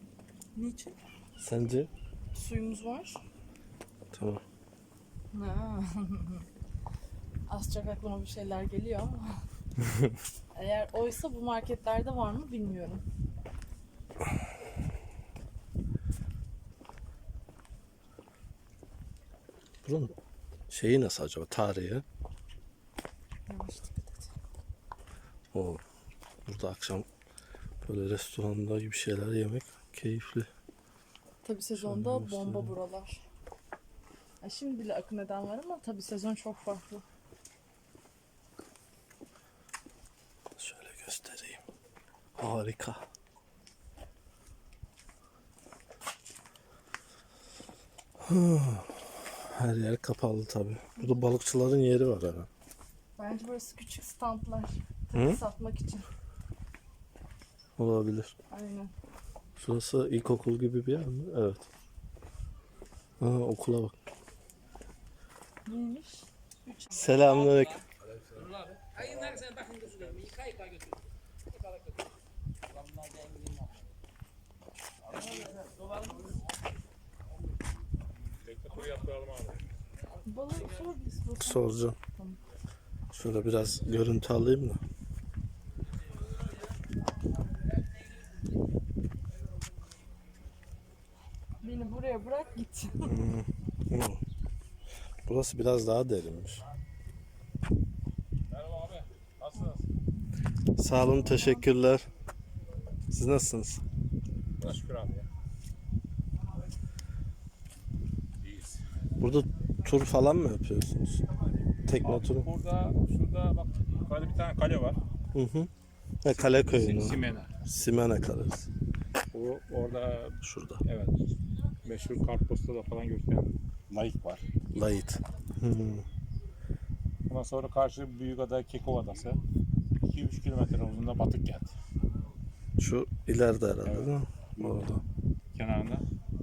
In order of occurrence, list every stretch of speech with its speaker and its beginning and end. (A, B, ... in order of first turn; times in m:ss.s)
0:00.5-0:01.0 A
0:01.4-0:01.9 B
0:02.3-0:03.2 A
0:04.1-0:04.4 B
0:05.3-0:06.5 A
0:07.5-0:09.4 A
0:10.5-0:13.0 A
0:19.8-0:20.1 B
0:20.7-0:22.0 B
0:23.5-0:24.3 A
0:25.5-0:25.8 B
0:26.4-0:27.0 B
0:27.8-0:30.5 B
0:31.4-0:33.2 A
0:31.8-0:32.7 B
0:34.4-0:37.0 A
0:40.6-0:41.6 B
0:42.4-0:43.0 B
0:48.2-0:52.5 B
0:51.0-0:51.3 A
0:53.2-0:56.0 A
0:55.1-0:55.4 B
0:57.8-0:58.3 B
0:58.5-0:58.9 A
0:59.6-1:01.7 B
1:03.2-1:03.9 B
1:05.6-1:07.2 A
1:06.9-1:07.8 B
1:18.4-1:19.6 C
1:20.2-1:22.4 A
1:21.4-1:22.0 B
1:23.1-1:24.8 B
1:31.6-1:33.1 A
1:33.0-1:34.2 B
1:35.2-1:36.6 B
1:38.5-1:39.8 C
1:40.8-1:42.1 B
1:40.9-1:41.7 A
1:43.1-1:43.8 B
1:44.6-1:45.3 C
1:48.4-1:48.8 C
1:49.2-1:51.2 B
1:51.8-1:52.5 B
1:52.0-1:55.0 C
1:55.3-1:55.7 B
1:56.2-1:58.7 B
1:56.4-1:57.6 C
1:59.3-2:04.5 C
2:00.4-2:00.8 B
2:04.7-2:06.0 B
2:07.3-2:09.4 C
2:10.0-2:11.8 C
2:12.8-2:15.0 B
2:13.8-2:15.0 C
2:15.5-2:16.0 C